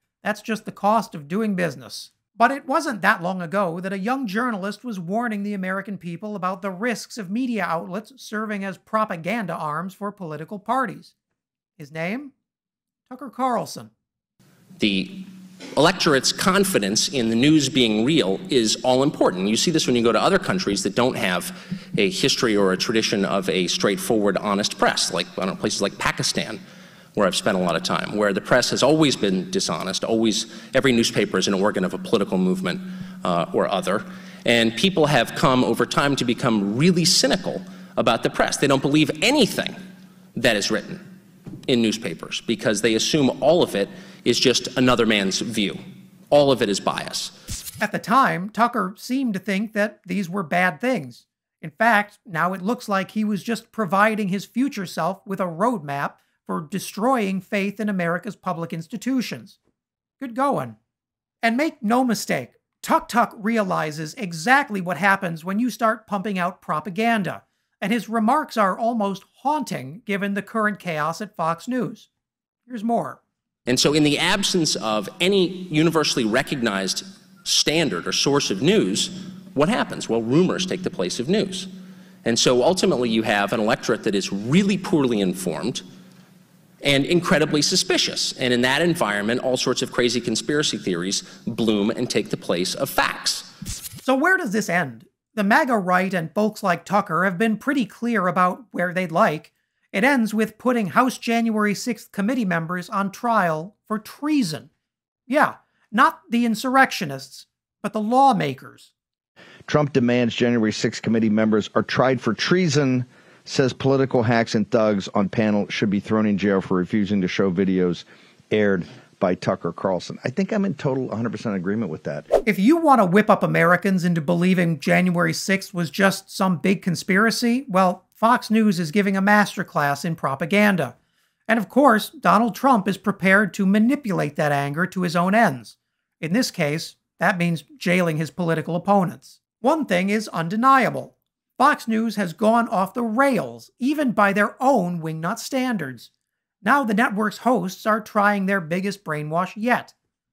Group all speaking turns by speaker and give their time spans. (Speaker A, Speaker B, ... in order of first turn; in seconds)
Speaker A: 0.2-11.1, 11.8-12.3, 13.1-13.9, 47.8-59.6, 60.2-60.8, 61.4-72.1, 72.7-73.2, 94.0-104.7, 105.3-108.9, 122.5-130.9, 131.5-146.1, 146.6-149.9
Speaker B: 14.8-26.6, 27.2-39.7, 40.4-41.0, 41.7-45.8, 46.3-47.3, 73.7-81.7, 82.2-85.8, 86.8-93.5
Speaker C: 109.7-122.3